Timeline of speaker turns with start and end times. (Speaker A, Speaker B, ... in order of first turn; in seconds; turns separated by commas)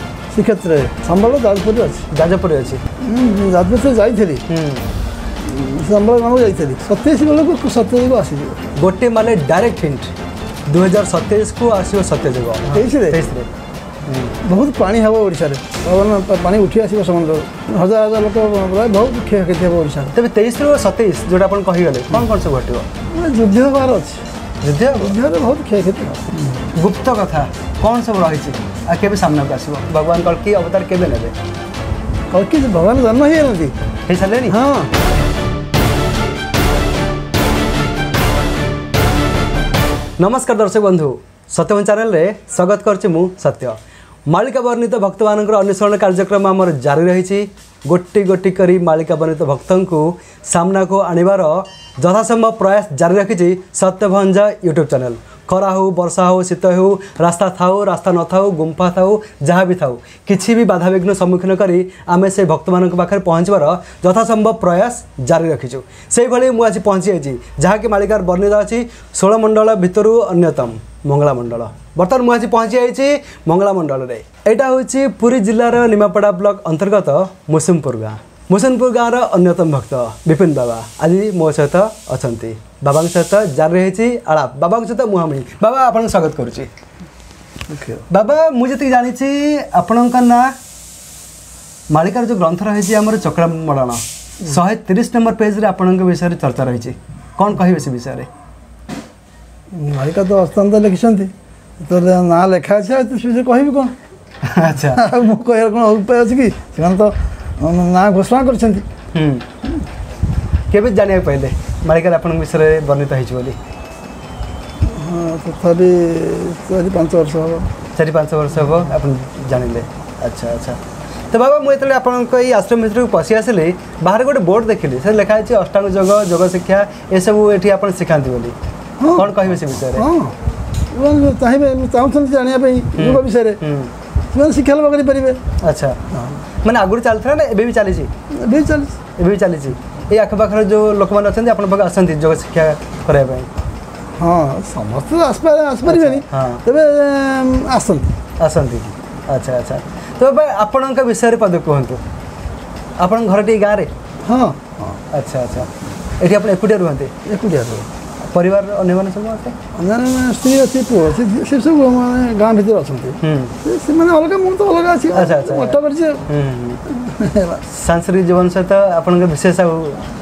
Speaker A: 0.3-2.0, Speaker B: 2.1-2.8, Speaker A: 3.0-4.4, Speaker B: 4.5-4.8, Speaker A: 5.4-8.6, Speaker B: 8.8-10.1, Speaker B: 10.7-13.5, Speaker A: 12.7-13.2, Speaker B: 14.1-14.3, Speaker A: 14.4-20.1, Speaker B: 20.1-22.9, Speaker A: 23.1-24.2, Speaker B: 24.6-25.1, Speaker A: 25.0-26.6, Speaker B: 26.7-31.3, Speaker A: 32.3-33.7, Speaker B: 34.1-34.6, Speaker A: 34.5-34.9, Speaker B: 40.2-43.8, Speaker B: 44.3-86.7, Speaker A: 87.7-88.0, Speaker B: 88.1-90.5, Speaker B: 91.9-98.3, Speaker A: 99.7-103.9, Speaker B: 104.4-105.0, Speaker A: 104.9-108.8, Speaker B: 109.1-109.5, Speaker B: 110.7-113.6, Speaker A: 114.8-117.7, Speaker B: 118.0-120.8, Speaker B: 121.3-128.5, Speaker A: 129.0-130.3, Speaker B: 129.1-130.1, Speaker A: 130.9-133.6, Speaker B: 132.9-133.9, Speaker A: 134.3-135.4, Speaker B: 135.6-136.0, Speaker B: 136.6-138.1, Speaker A: 138.3-138.9, Speaker B: 139.2-143.5, Speaker A: 144.2-148.1, Speaker B: 145.8-146.6, Speaker B: 148.4-152.0, Speaker B: 153.0-153.9, Speaker A: 154.2-155.0, Speaker B: 155.1-157.1, Speaker A: 157.2-157.9, Speaker B: 158.3-159.5, Speaker A: 159.7-166.3, Speaker B: 163.2-163.5, Speaker B: 165.1-166.8, Speaker A: 166.9-167.6, Speaker B: 167.7-170.0